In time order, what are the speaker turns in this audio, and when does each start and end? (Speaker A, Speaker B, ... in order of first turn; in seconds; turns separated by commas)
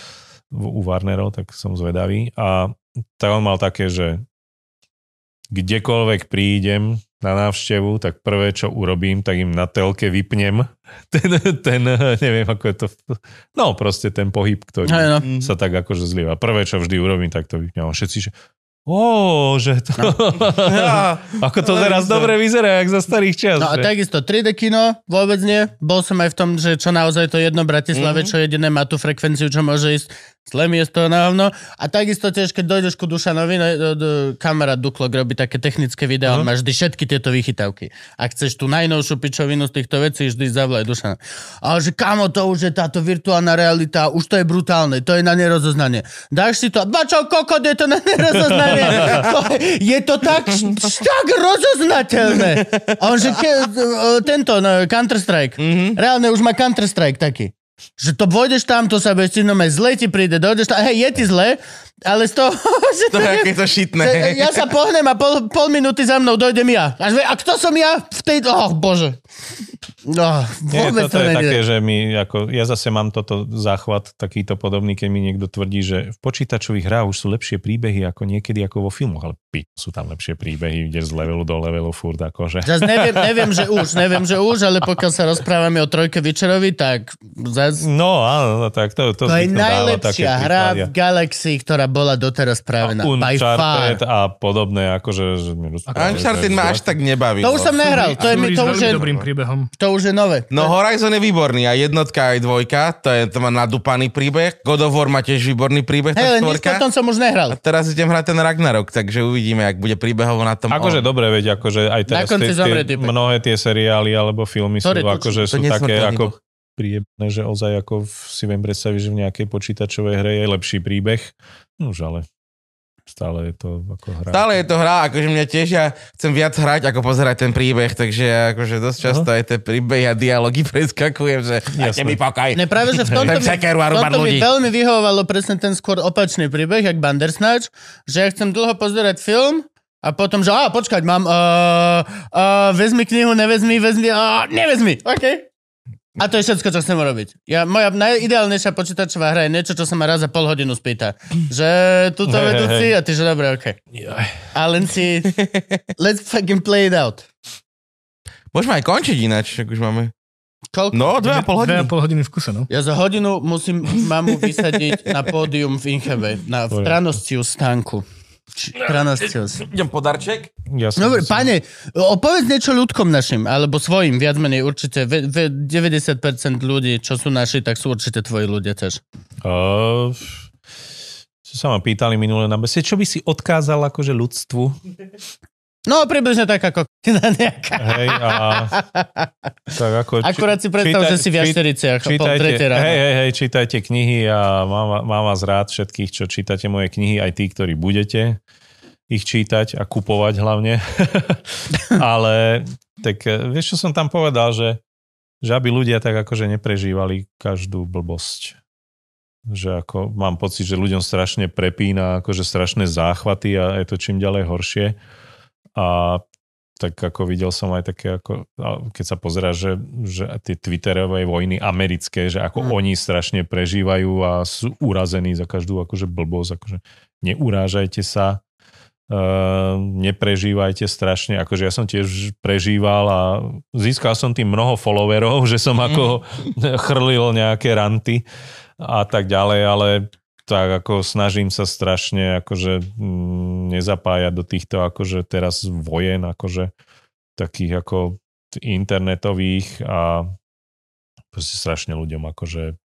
Speaker A: 0.5-4.2, Speaker A: 5.5-18.3, Speaker B: 14.8-15.2, Speaker C: 15.2-15.5, Speaker A: 18.9-23.9, Speaker C: 20.6-22.4, Speaker B: 23.6-69.2, Speaker C: 27.9-28.3, Speaker A: 48.4-49.2, Speaker C: 52.4-53.3, Speaker C: 55.6-56.0, Speaker C: 63.1-64.7, Speaker B: 70.1-71.6, Speaker A: 70.7-83.8, Speaker B: 82.6-87.9, Speaker A: 87.8-90.9, Speaker B: 89.3-94.0, Speaker A: 92.8-96.9, Speaker D: 95.9-96.3, Speaker C: 95.9-99.3, Speaker B: 97.4-99.0, Speaker D: 97.8-99.7, Speaker B: 99.8-100.8, Speaker C: 100.5-106.8, Speaker B: 106.2-107.6, Speaker C: 107.5-111.0, Speaker A: 110.7-122.3, Speaker B: 112.1-113.1, Speaker B: 114.8-115.4, Speaker C: 115.5-116.4, Speaker A: 123.1-124.5, Speaker C: 124.3-134.5, Speaker A: 131.8-132.2, Speaker B: 132.5-145.5, Speaker A: 133.1-133.3, Speaker B: 146.2-153.8, Speaker A: 152.3-152.9, Speaker A: 153.9-154.3, Speaker B: 154.5-155.3, Speaker C: 155.3-155.8, Speaker B: 156.0-157.3, Speaker C: 158.5-160.1, Speaker B: 160.7-161.0, Speaker C: 160.9-161.9, Speaker D: 161.2-162.7, Speaker B: 162.7-168.1, Speaker A: 166.7-167.0, Speaker B: 168.6-169.6, Speaker C: 169.6-170.5, Speaker A: 170.7-171.5, Speaker B: 171.0-179.0, Speaker A: 179.4-180.5, Speaker A: 181.4-184.8, Speaker B: 185.9-189.3, Speaker A: 187.8-188.7, Speaker A: 189.7-198.4, Speaker B: 190.2-193.0, Speaker A: 199.1-204.8, Speaker A: 205.4-208.6, Speaker A: 209.5-214.9, Speaker A: 215.8-216.2, Speaker A: 216.8-228.4, Speaker A: 229.1-238.2, Speaker A: 238.8-246.7, Speaker A: 247.4-250.3, Speaker A: 251.3-252.8